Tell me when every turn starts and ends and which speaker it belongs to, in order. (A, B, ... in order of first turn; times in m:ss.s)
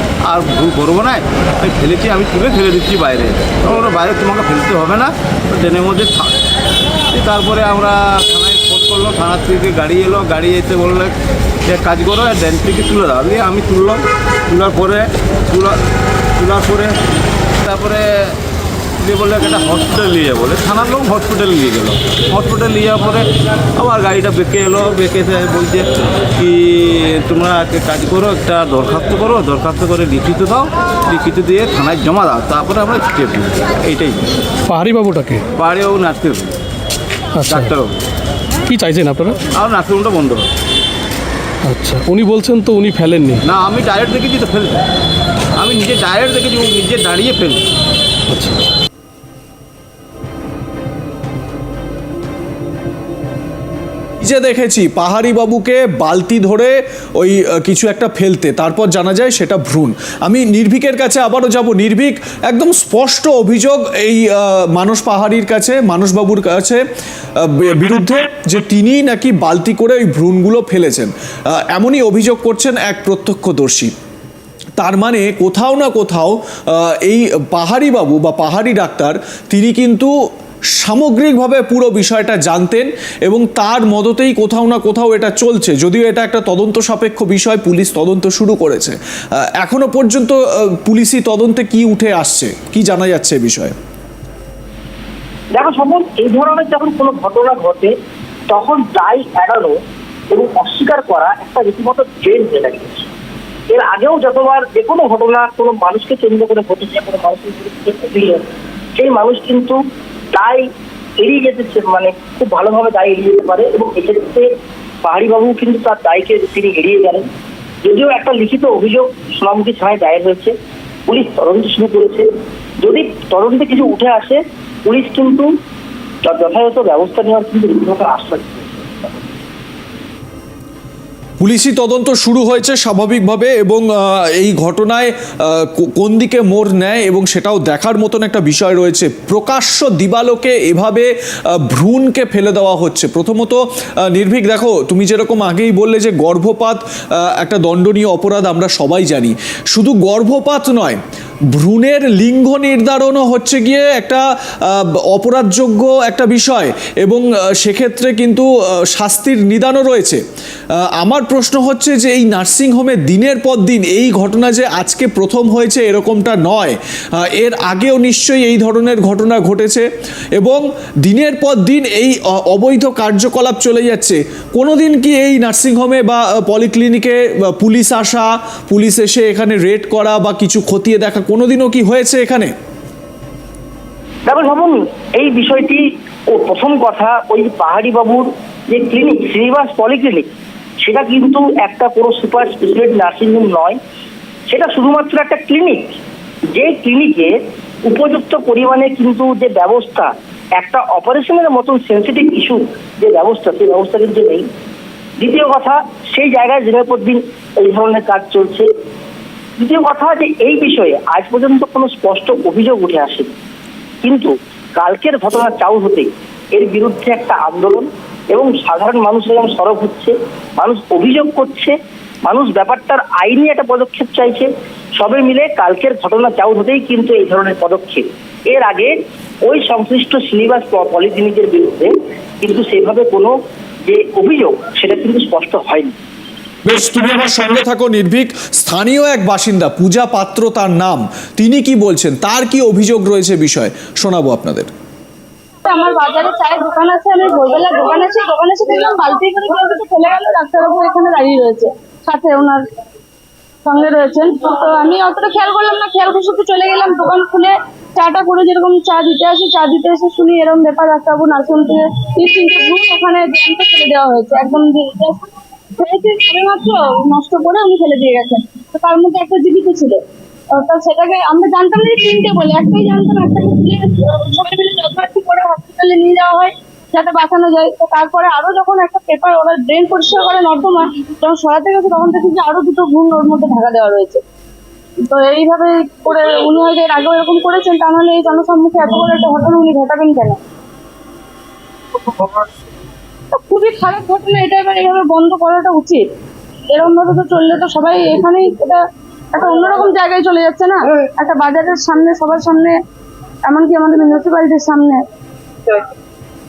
0:00.2-0:06.4 A
0:07.1-0:11.1 A
0:11.6-0:15.8 A
0:16.4-0:17.0 A
0:17.6-0:18.4 A
0:19.0-0:34.2 A
0:34.7-0:35.4 B
0:35.6-0:36.6 A
0:37.4-0:37.7 B
0:37.4-0:38.0 A
0:38.7-0:39.4 B
0:39.5-0:40.5 A
0:41.6-0:43.4 B
0:43.4-0:44.8 A
0:45.6-0:47.6 A
0:48.3-0:48.6 B
0:54.2-1:06.8 C
1:07.4-1:13.9 C
1:14.8-1:20.1 C
1:20.8-1:29.0 C
1:29.6-1:33.8 C
1:35.5-1:37.9 D
1:38.5-1:39.8 D
1:40.3-1:43.1 D
1:43.7-1:49.8 D
1:50.3-1:50.6 D
1:51.2-1:54.5 D
1:55.0-1:57.2 D
1:57.8-2:00.5 D
2:01.1-2:02.2 D
2:02.8-2:05.5 D
2:06.2-2:09.2 D
2:11.4-2:31.0 C
2:31.5-2:40.2 C
2:41.0-3:02.5 C
3:04.2-3:13.8 D
3:14.5-3:16.0 D
3:16.5-3:17.3 D
3:17.8-3:24.4 D
3:25.2-3:28.7 D
3:29.6-3:33.3 D
3:34.0-3:41.7 D
3:42.2-3:48.9 D
3:49.4-3:53.3 D
3:53.8-3:55.9 D
3:56.6-4:04.7 C
4:05.6-4:12.6 E
4:13.6-4:30.0 E
4:30.5-4:44.2 E
4:45.0-4:50.4 E
4:53.4-4:56.0 E
4:56.7-4:58.8 E
4:59.3-5:02.8 E
5:03.4-5:05.0 E